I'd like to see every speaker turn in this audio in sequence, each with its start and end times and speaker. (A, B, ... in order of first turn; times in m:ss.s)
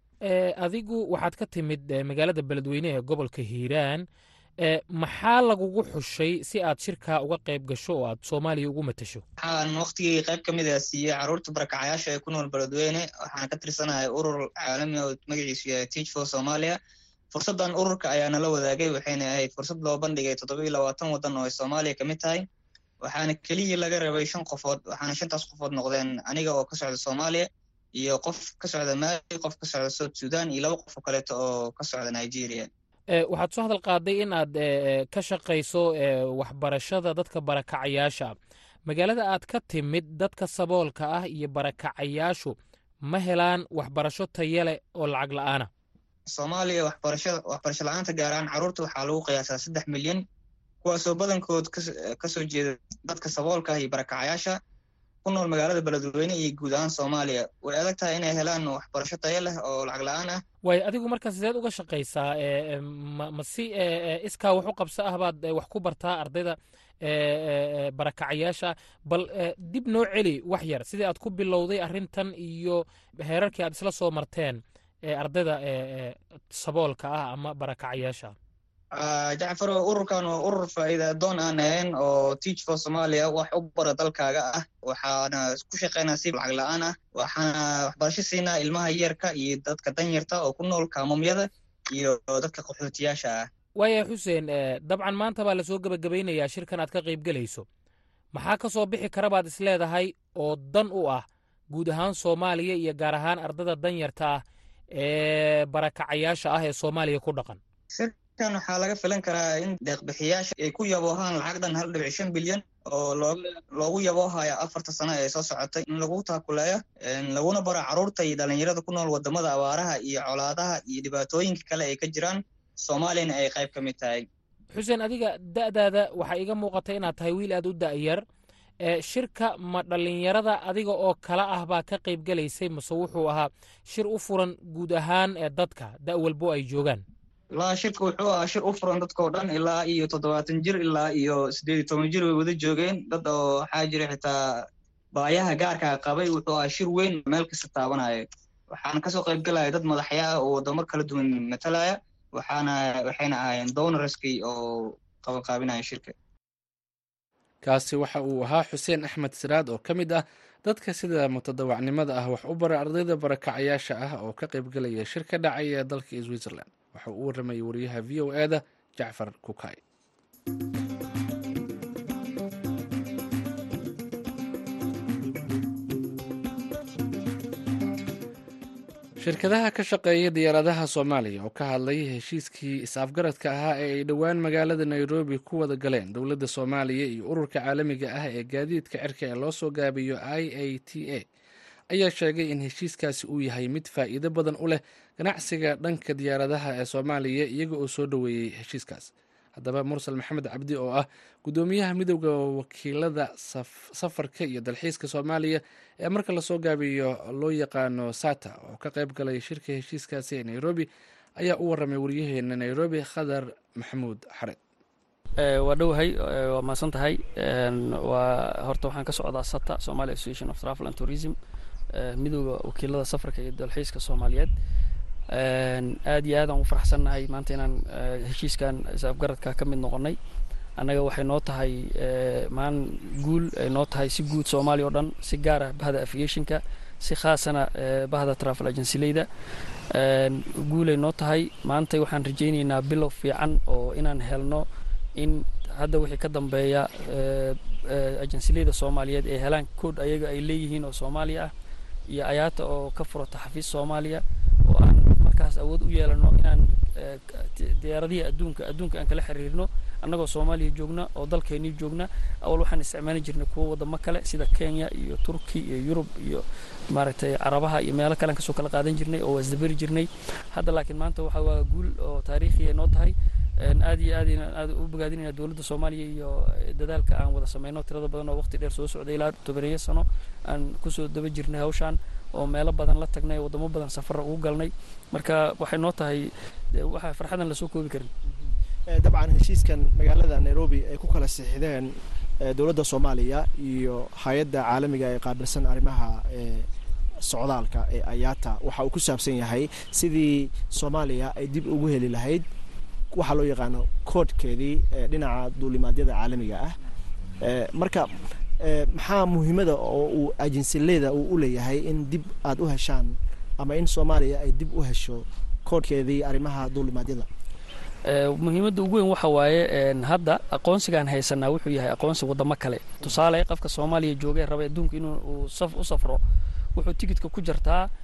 0:00.3-0:04.0 A
0:04.6-0:09.2 A
0:09.4-0:16.8 B
0:17.3-0:22.4 B
0:23.0-0:32.7 B
0:33.2-0:38.4 A
0:38.9-0:42.6 A
0:43.1-0:45.7 A
0:46.3-0:50.2 B
0:50.8-0:54.6 B
0:55.2-1:00.4 B
1:00.6-1:18.4 A
1:19.0-1:33.5 B
1:33.8-1:37.7 A
1:38.4-1:44.4 A
1:45.0-1:47.6 A
1:47.9-2:04.3 B
2:04.7-2:08.2 A
2:08.9-2:17.0 A
2:17.5-2:24.4 B
2:25.2-2:36.1 B
2:37.6-2:49.8 C
2:59.2-3:11.2 C
3:11.9-3:30.9 C
3:31.4-3:34.6 C
3:35.4-3:41.4 D
3:41.9-3:44.5 D
3:45.3-3:50.2 D
3:50.8-3:59.3 D
3:59.9-4:04.6 D
4:05.2-4:11.5 D
4:12.1-4:48.1 D
4:48.3-4:51.9 E
4:52.4-4:56.7 E
4:57.2-5:02.5 E
5:03.1-5:06.7 E
5:07.4-5:08.1 E
5:08.6-5:17.3 E
5:18.1-5:26.2 D
5:26.8-5:27.9 D